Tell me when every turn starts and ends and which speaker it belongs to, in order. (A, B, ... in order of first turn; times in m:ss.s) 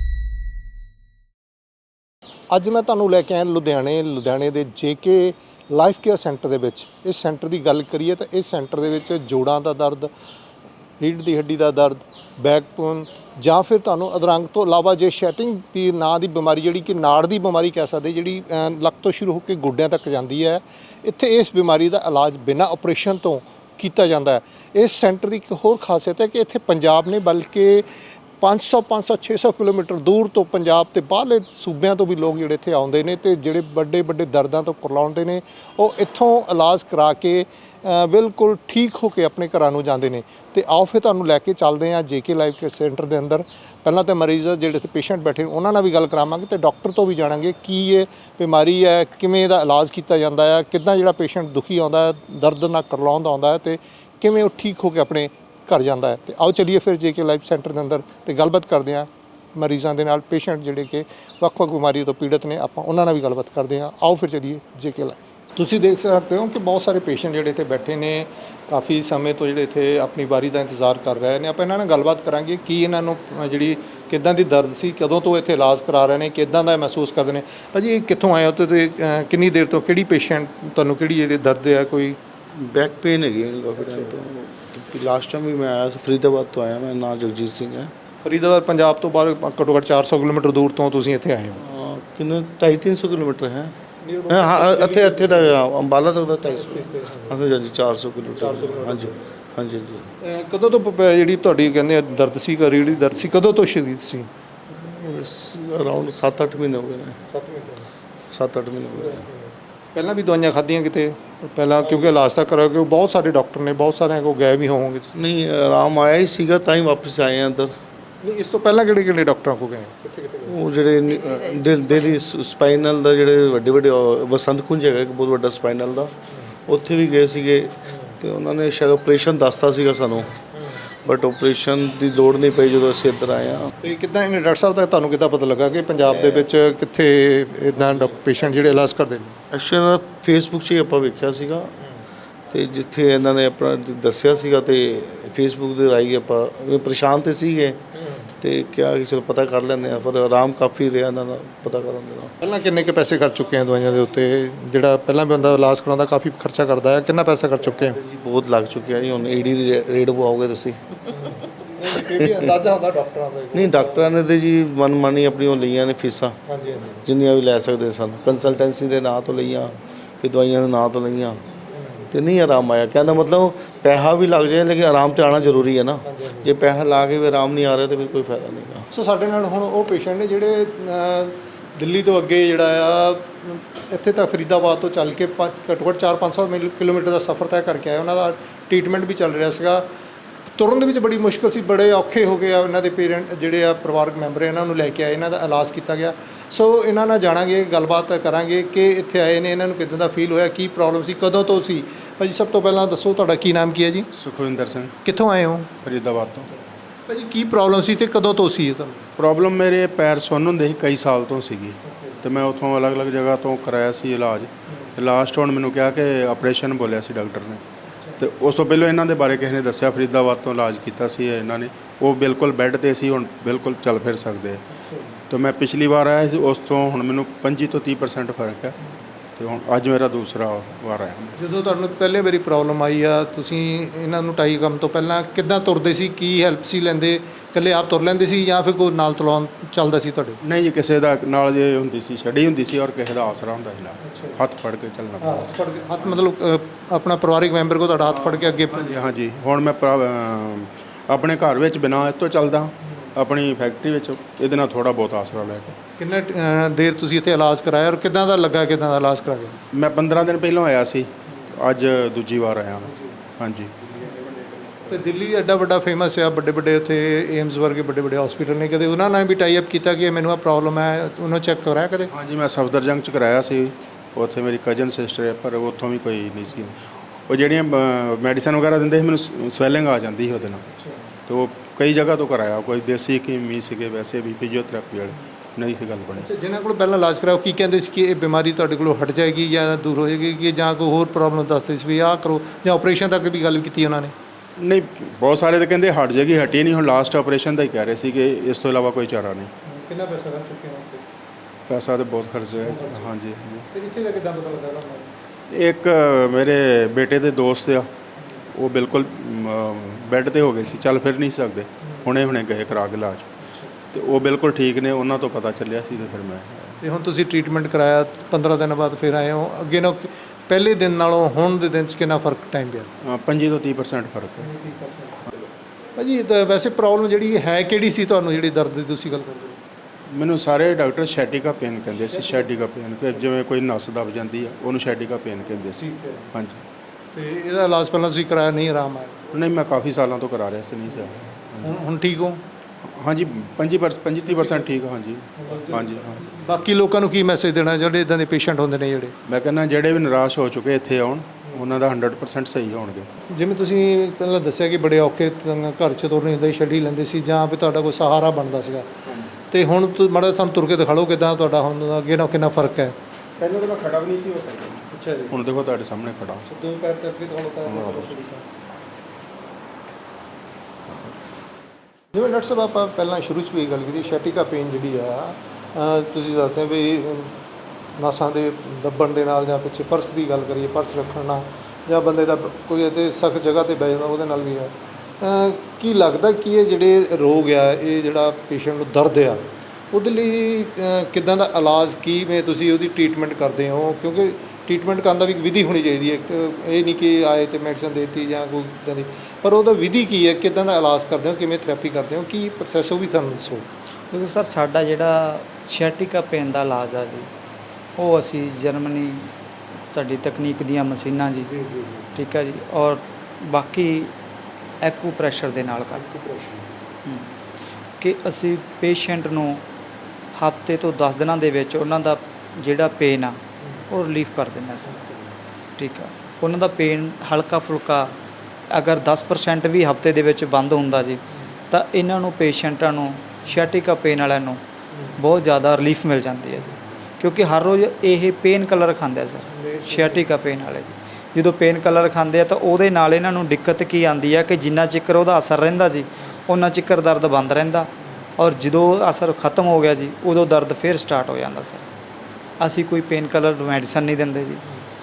0:02.5-0:10.1 A
0:11.0-0:27.9 A
0:28.4-1:22.2 A
1:22.5-1:27.9 B
1:28.2-1:31.6 A
1:31.6-1:33.7 B
1:34.0-1:35.6 A
1:34.3-1:40.1 B
1:36.4-1:37.4 A
1:38.3-1:39.1 A
1:40.2-1:44.3 A
1:44.7-1:47.2 B
1:47.3-1:47.9 A
1:48.3-1:49.2 B
1:48.9-1:49.4 A
1:49.9-1:55.1 A
1:55.1-1:57.7 B
1:58.2-2:00.6 A
2:00.4-2:06.1 B
2:06.7-2:10.4 B
2:10.6-2:10.8 A
2:11.0-2:13.7 B
2:13.8-2:19.4 A
2:19.5-2:21.7 B
2:22.5-2:27.8 B
2:28.4-2:32.3 B
2:32.4-2:38.0 A
2:37.8-2:41.0 B
2:41.1-2:44.2 A
2:42.2-2:42.4 B
2:43.5-2:46.4 B
2:46.5-2:47.0 A
2:47.0-2:51.4 B
2:51.8-2:52.1 A
2:52.1-2:58.9 B
2:56.0-2:56.5 A
2:58.9-3:09.8 A
3:10.6-3:24.1 A
3:24.1-3:24.9 C
3:25.0-3:25.7 A
3:25.8-3:26.5 C
3:27.1-3:29.0 A
3:29.2-3:37.6 C
3:38.2-3:44.6 C
3:44.8-3:45.2 A
3:45.3-3:48.8 C
3:49.4-3:51.4 C
3:51.4-4:00.4 A
4:00.4-4:06.2 C
4:04.0-4:04.4 A
4:05.2-4:09.0 A
4:08.2-4:15.8 C
4:16.0-4:19.6 A
4:19.7-4:24.9 C
4:24.8-4:32.1 A
4:32.1-4:40.6 C
4:41.3-4:46.3 C
4:46.1-4:54.1 A
4:54.6-4:59.5 C
4:59.6-5:01.0 A
5:01.7-5:03.7 C
5:02.6-5:03.1 A
5:03.7-5:05.1 A
5:05.5-5:07.9 C
5:08.5-5:13.3 C
5:13.9-5:16.8 C
5:16.8-5:22.9 A
5:23.0-5:24.5 C
5:24.4-5:25.2 A
5:26.0-5:29.6 A
5:30.1-5:36.6 C
5:35.8-5:36.2 A
5:37.1-5:39.2 A
5:39.3-5:41.7 C
5:41.6-5:42.4 A
5:42.8-5:46.3 C
5:44.3-5:44.7 A
5:45.4-5:49.1 A
5:49.2-5:53.1 C
5:53.3-5:58.8 A
5:59.5-6:02.9 A
6:03.4-6:06.4 C
6:04.9-6:05.4 A
6:06.5-6:08.4 A
6:07.6-6:08.2 C
6:12.1-6:17.4 A
6:18.0-6:43.6 A
6:44.1-6:47.3 D
6:48.0-6:49.3 D
6:49.9-6:51.5 D
6:51.5-6:52.1 A
6:52.1-6:54.1 D
6:54.8-6:56.1 D
6:56.1-6:56.7 A
6:57.0-6:57.3 D
6:58.0-6:59.6 D
7:00.3-7:05.1 D
7:05.8-7:08.1 D
7:08.7-7:14.6 D
7:15.2-7:31.8 D
7:32.6-7:34.6 D